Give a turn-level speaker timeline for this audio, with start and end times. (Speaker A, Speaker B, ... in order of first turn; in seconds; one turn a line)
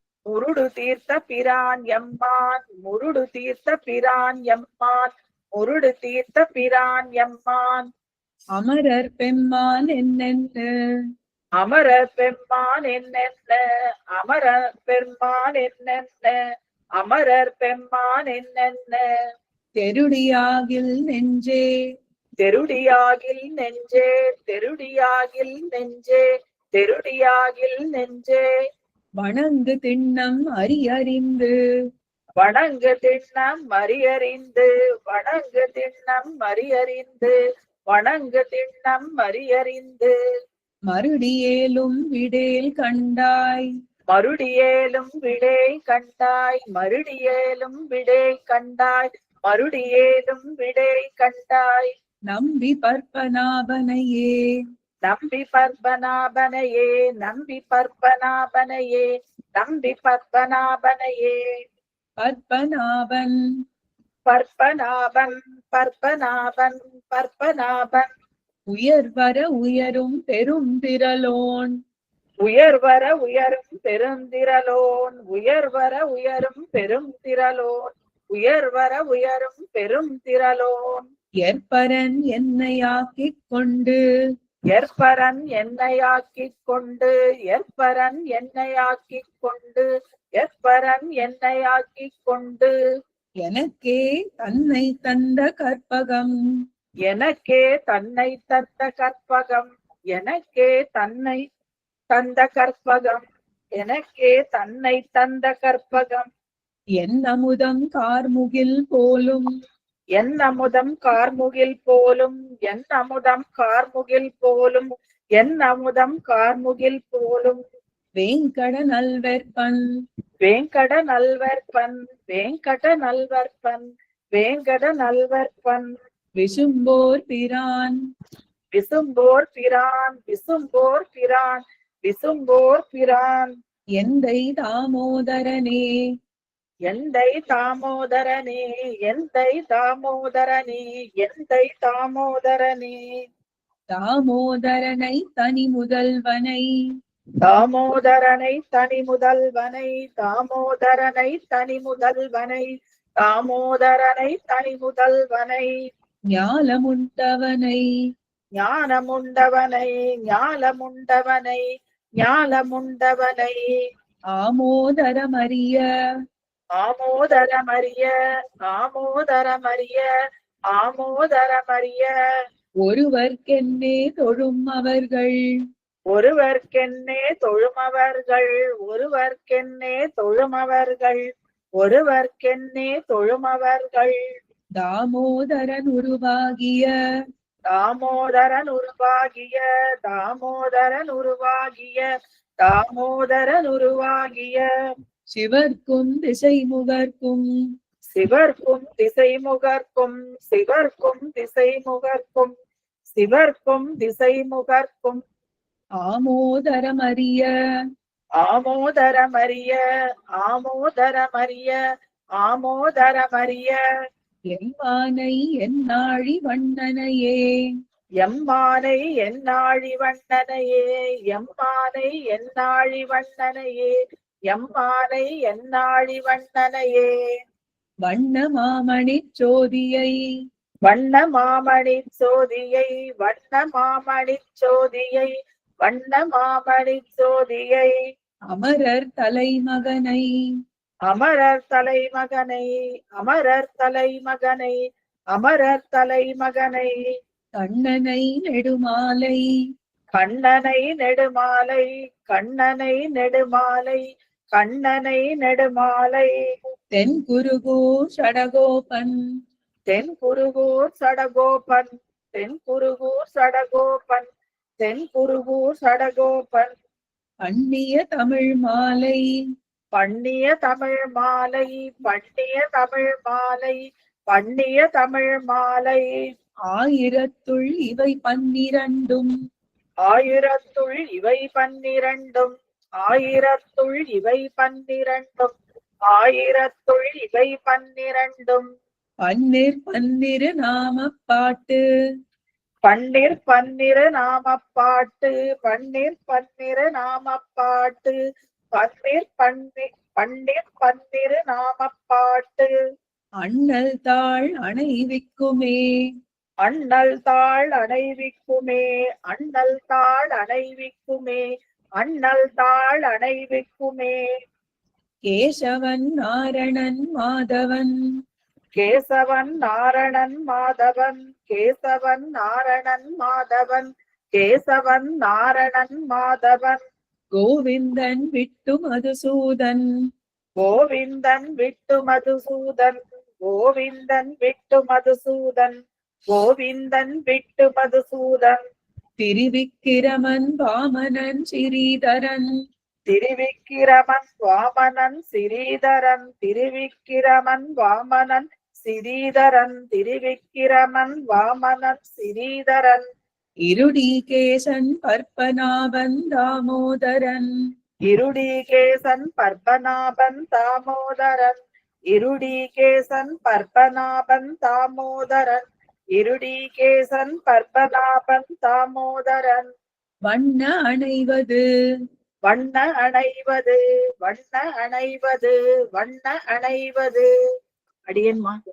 Speaker A: 0.3-7.9
Speaker B: 8.6-10.7
Speaker A: 11.6-13.6
Speaker A: 14.1-16.4
Speaker A: 17.0-19.1
Speaker B: 19.8-21.6
Speaker A: 22.4-26.2
Speaker A: 26.8-28.5
Speaker B: 29.2-31.5
Speaker A: 32.4-37.4
Speaker A: 37.9-40.1
Speaker B: 40.9-43.7
Speaker A: 44.1-51.9
Speaker B: 52.3-54.4
Speaker A: 55.0-61.5
Speaker B: 62.2-63.4
Speaker A: 64.3-68.1
Speaker B: 68.7-71.7
Speaker A: 72.4-77.8
Speaker A: 78.3-81.0
Speaker B: 81.4-84.0
Speaker A: 84.7-89.9
Speaker A: 90.4-92.7
Speaker B: 93.4-96.3
Speaker A: 97.1-101.4
Speaker A: 102.1-103.2
Speaker A: 103.8-106.3
Speaker B: 107.0-109.5
Speaker A: 110.2-117.6
Speaker B: 118.2-119.8
Speaker A: 120.4-125.9
Speaker B: 126.4-128.0
Speaker A: 128.8-133.5
Speaker B: 134.0-135.8
Speaker A: 136.9-143.0
Speaker B: 143.9-146.7
Speaker A: 147.4-152.7
Speaker A: 153.2-155.7
Speaker B: 156.3-157.8
Speaker A: 158.6-161.7
Speaker A: 162.2-163.7
Speaker B: 164.4-165.8
Speaker A: 166.8-168.1
Speaker A: 168.7-170.1
Speaker A: 170.7-172.1
Speaker B: 172.8-175.4
Speaker A: 176.1-181.3
Speaker A: 181.8-184.2
Speaker B: 184.8-186.9
Speaker A: 187.7-192.1
Speaker A: 192.6-194.7
Speaker B: 195.4-197.4
Speaker A: 198.2-202.5
Speaker A: 203.2-205.2
Speaker B: 206.1-207.5
Speaker A: 208.4-209.8
Speaker A: 210.4-211.8
Speaker A: 212.4-213.8
Speaker B: 214.6-217.4
Speaker A: 218.2-223.9
Speaker A: 224.5-227.2
Speaker B: 228.1-230.2
Speaker A: 230.9-238.0
Speaker B: 238.5-240.3
Speaker A: 241.1-244.8
Speaker A: 245.3-246.9
Speaker B: 247.6-249.4
Speaker A: 250.2-254.0
Speaker A: 254.6-256.4
Speaker B: 256.9-259.1
Speaker A: 259.9-264.3
Speaker A: 264.8-266.7
Speaker B: 267.5-269.2
Speaker A: 269.9-276.2
Speaker B: 276.7-279.3
Speaker A: 280.1-285.5
Speaker A: 286.1-288.7
Speaker B: 289.3-291.8
Speaker A: 292.9-298.2
Speaker A: 298.8-302.7
Speaker B: 303.4-305.8
Speaker A: 306.6-311.4
Speaker A: 312.0-314.2
Speaker B: 315.3-317.9
Speaker A: 318.8-326.8
Speaker B: 327.4-329.9
Speaker A: 330.6-335.8
Speaker A: 336.3-338.6
Speaker B: 339.2-342.5
Speaker A: 343.1-353.1
Speaker B: 353.7-357.5
Speaker A: 358.1-369.7
Speaker B: 370.3-371.6
Speaker A: 372.5-377.3
Speaker A: 378.1-378.6